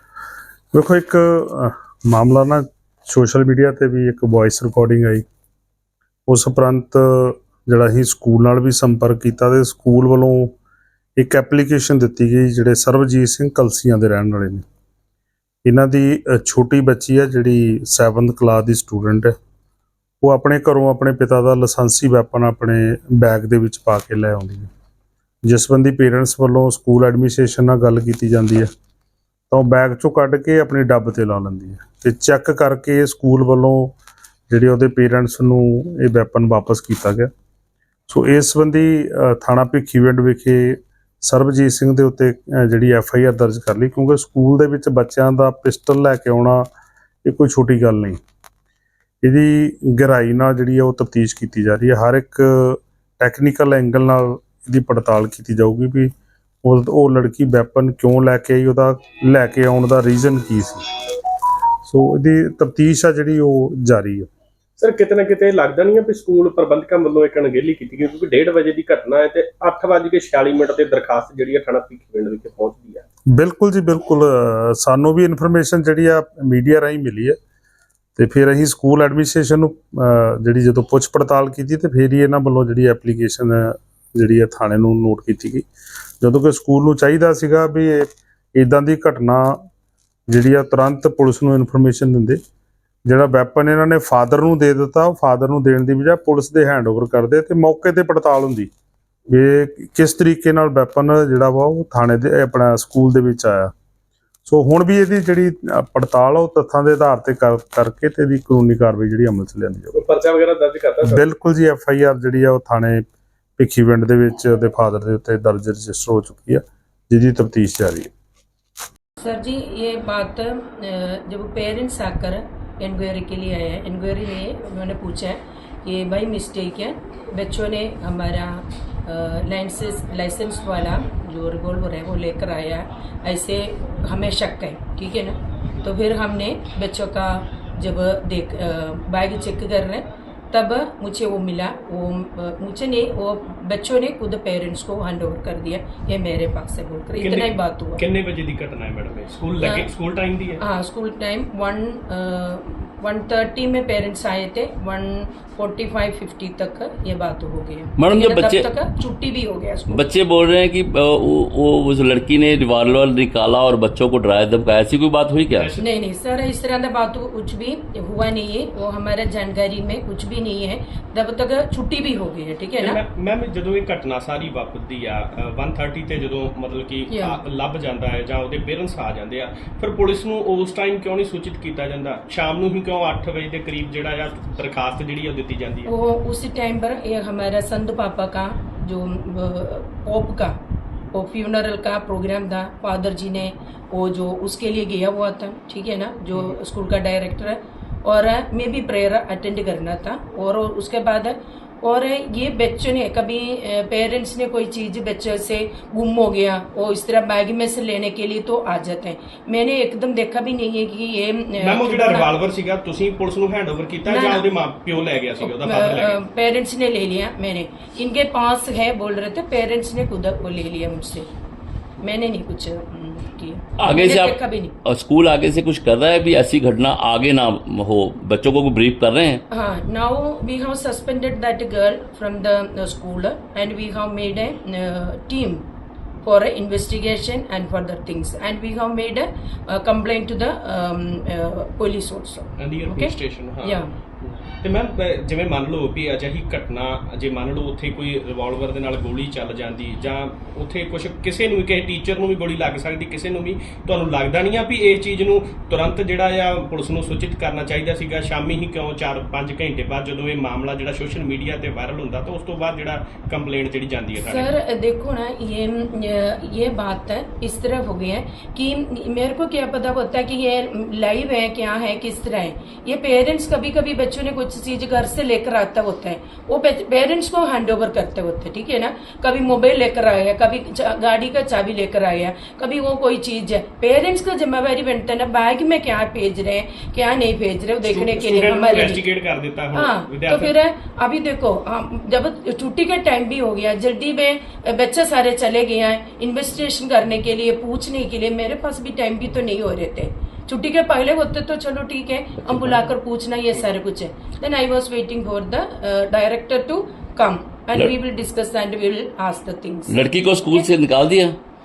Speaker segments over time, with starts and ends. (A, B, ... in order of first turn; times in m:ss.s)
0:00.7-0:05.2 A
0:06.3-0:10.5 A
0:11.2-0:14.6 A
0:15.6-0:19.3 A
0:20.2-0:24.7 A
0:25.4-0:28.7 A
0:29.5-0:33.9 A
0:34.5-0:37.3 A
0:38.1-0:46.7 A
0:47.2-0:48.2 A
0:49.2-0:56.1 A
0:56.6-1:00.8 A
1:01.8-1:04.3 A
1:04.8-1:13.0 B
1:13.3-1:17.4 A
1:18.2-1:25.6 A
1:26.2-1:29.6 A
1:30.3-1:32.4 A
1:33.0-1:38.7 A
1:39.3-1:43.7 A
1:44.4-1:50.0 A
1:49.9-1:51.2 B
1:51.0-1:53.0 A
1:53.6-1:58.1 A
1:59.2-2:28.0 C
2:27.2-2:30.6 B
2:29.6-2:29.9 C
2:30.6-2:40.1 C
2:38.0-2:38.6 D
2:39.9-2:45.7 D
2:45.6-2:45.8 B
2:45.8-2:53.0 C
2:52.8-3:05.9 B
2:57.1-2:57.4 C
3:05.8-3:10.6 C
3:11.1-3:32.3 C
3:31.6-3:36.2 B
3:34.0-3:34.6 C
3:35.4-3:41.3 C
3:42.0-3:44.8 C
3:43.8-3:49.4 D
3:49.5-3:55.6 C
3:56.2-4:03.9 C
4:02.6-4:24.5 B
4:24.2-4:49.0 C
4:47.8-4:50.5 B
4:49.7-5:10.7 C
5:09.9-5:11.4 D